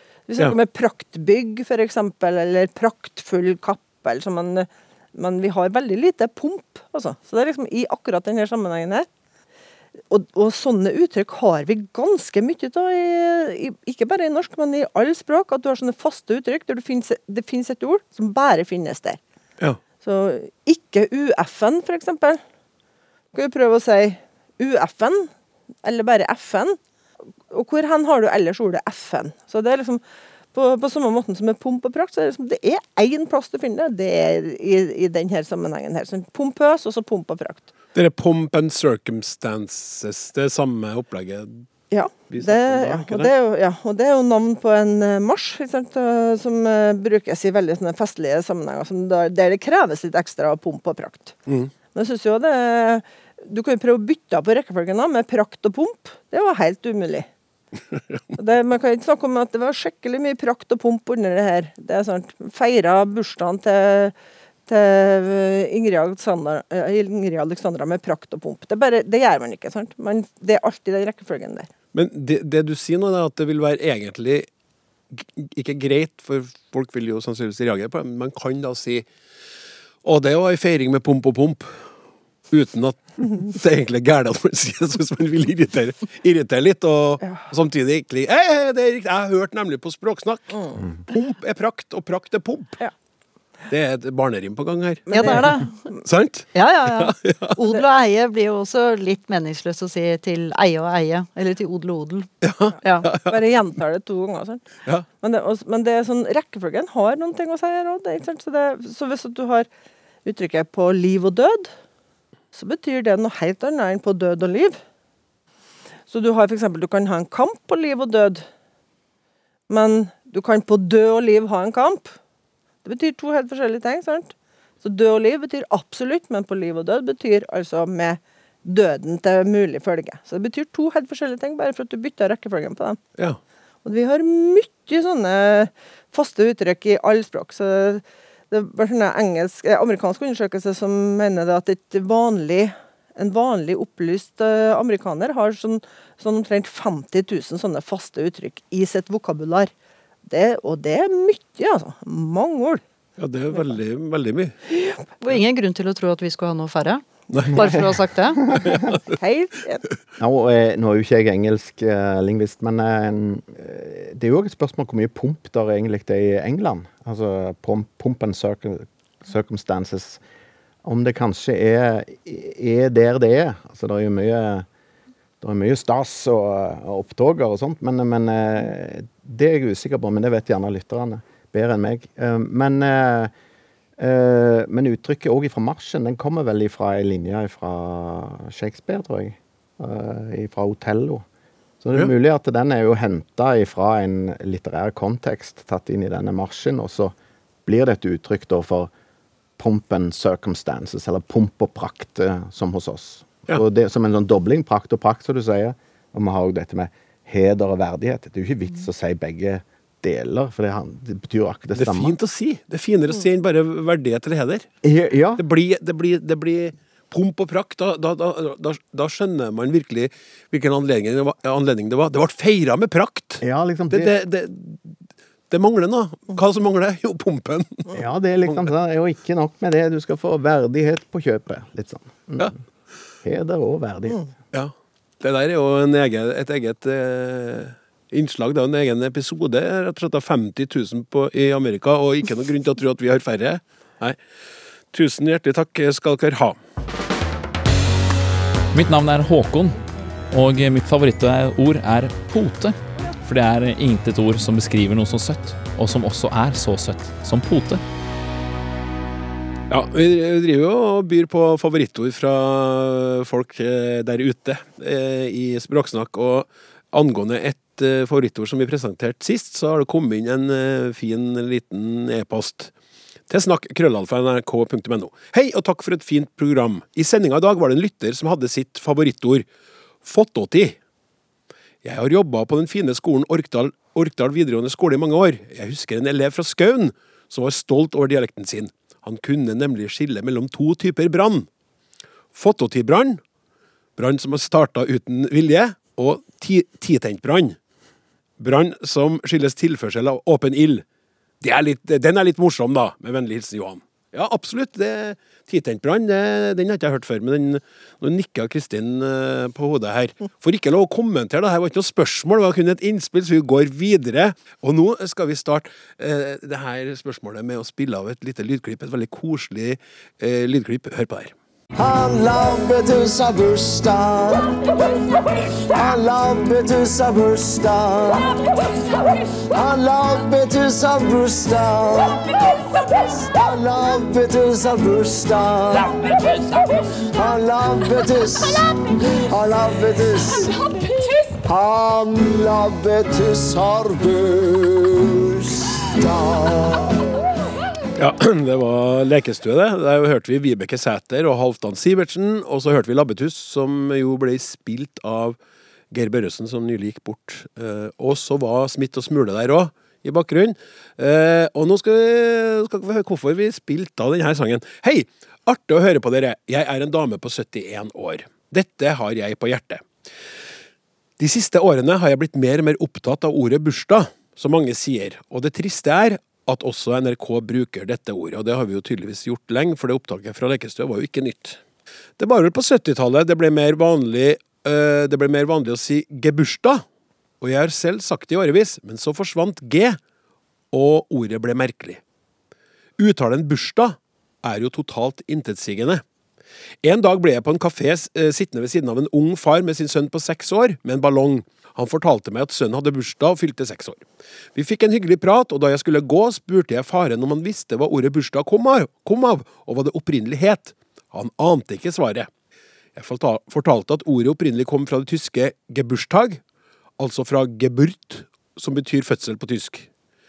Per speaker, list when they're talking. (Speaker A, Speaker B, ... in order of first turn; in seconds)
Speaker A: 0.3-9.1, 10.1-19.2, 20.0-22.4, 23.3-25.3, 25.8-26.8, 27.5-30.0, 30.5-37.6, 41.9-51.3, 51.9-57.3, 58.4-64.1, 64.7-71.7, 95.1-96.0, 103.1-104.6, 105.2-109.7, 110.2-111.7, 112.5-114.8, 116.1-118.4, 119.7-122.2, 122.8-133.0, 133.8-149.7, 150.3-152.8, 154.7-155.0, 159.1-159.8
Speaker B: 37.9-41.7, 42.3-43.3, 51.5-51.7, 57.9-58.2, 71.9-74.5, 75.1-79.0, 80.0-81.8, 82.5-92.8, 93.7-95.4, 96.0-97.6, 102.4-103.4, 153.2-154.5, 157.3-157.8, 158.5-159.0, 211.7-214.7, 215.4-224.9, 225.5-227.9, 234.5-244.2, 244.9-246.6, 259.7-272.7, 273.3-279.4, 280.0-280.8, 281.8-291.5, 292.3-293.2, 293.9-297.6, 298.4-300.8, 301.4-321.3, 348.0-355.4, 355.9-369.9, 371.2-381.6, 382.2-386.8, 387.4-390.0, 390.7-392.0, 393.0-396.0, 396.8-404.0, 404.5-412.3, 412.9-416.4, 417.0-419.9
Speaker C: 95.1-95.7, 96.5-102.3, 102.8-103.1, 155.2-158.4
Speaker D: 157.5-157.8, 160.2-170.2, 170.8-174.7, 175.4-183.3, 184.0-191.2, 191.8-197.1, 197.7-198.9, 199.6-212.1, 214.8-215.4, 223.4-224.1, 227.9-232.6, 233.2-234.2
Speaker E: 248.7-249.8, 250.3-257.8
Speaker F: 321.8-324.6, 325.7-328.4, 329.5-336.1, 337.1-347.0